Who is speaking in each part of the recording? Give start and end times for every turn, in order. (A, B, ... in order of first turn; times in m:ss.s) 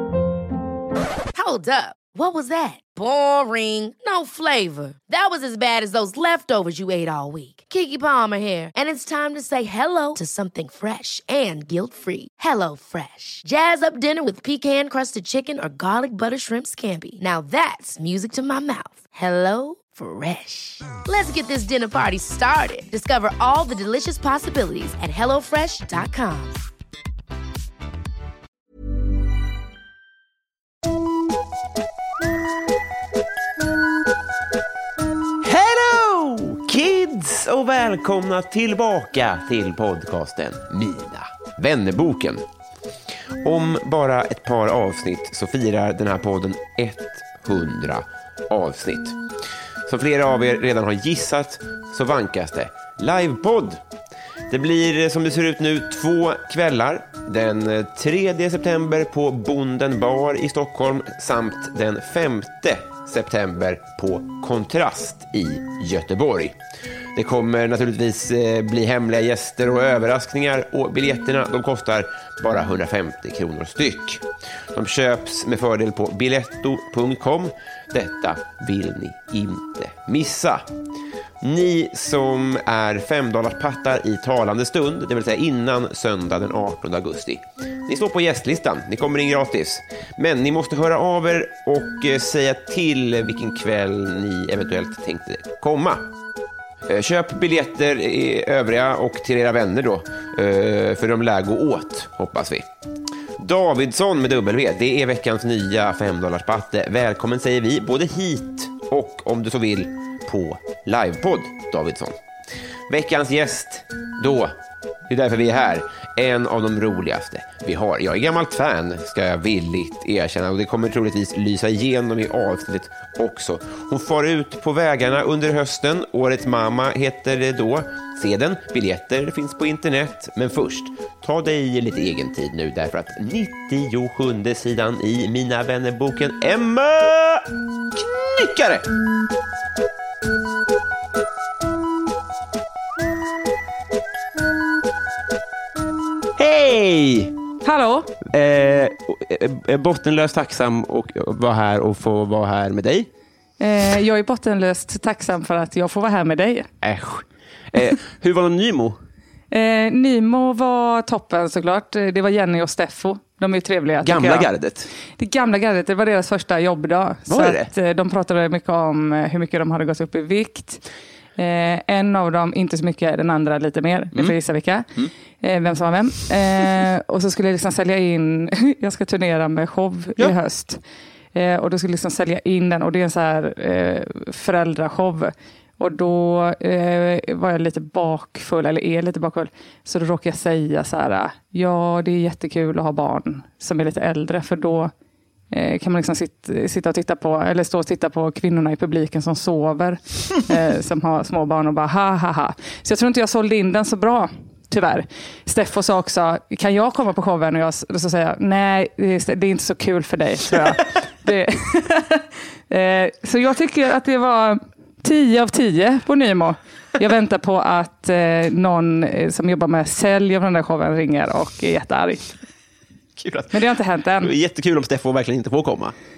0:01.4-0:26.6 A
0:35.4-0:42.4 B
0:43.4-0:49.2 B
0:49.9-0:53.8 B
0:54.5-1:06.6 B
1:07.2-1:20.7 B
1:21.4-1:36.0 B
1:36.9-1:42.7 B
1:43.4-1:52.2 B
1:52.9-1:54.6 B
1:55.1-2:18.9 B
2:26.4-2:27.4 B
2:27.6-2:28.2 C
2:28.2-2:33.1 B
2:33.6-2:36.7 C
2:36.8-2:39.0 B
2:39.5-2:44.5 C
2:44.0-2:44.9 B
2:45.2-2:50.8 C
2:47.3-2:47.7 B
2:51.4-2:54.9 C
2:55.4-3:00.8 C
3:01.3-3:14.9 C
3:15.5-3:42.3 C
3:43.2-3:43.6 B
3:43.5-3:44.3 C
3:44.2-3:46.0 B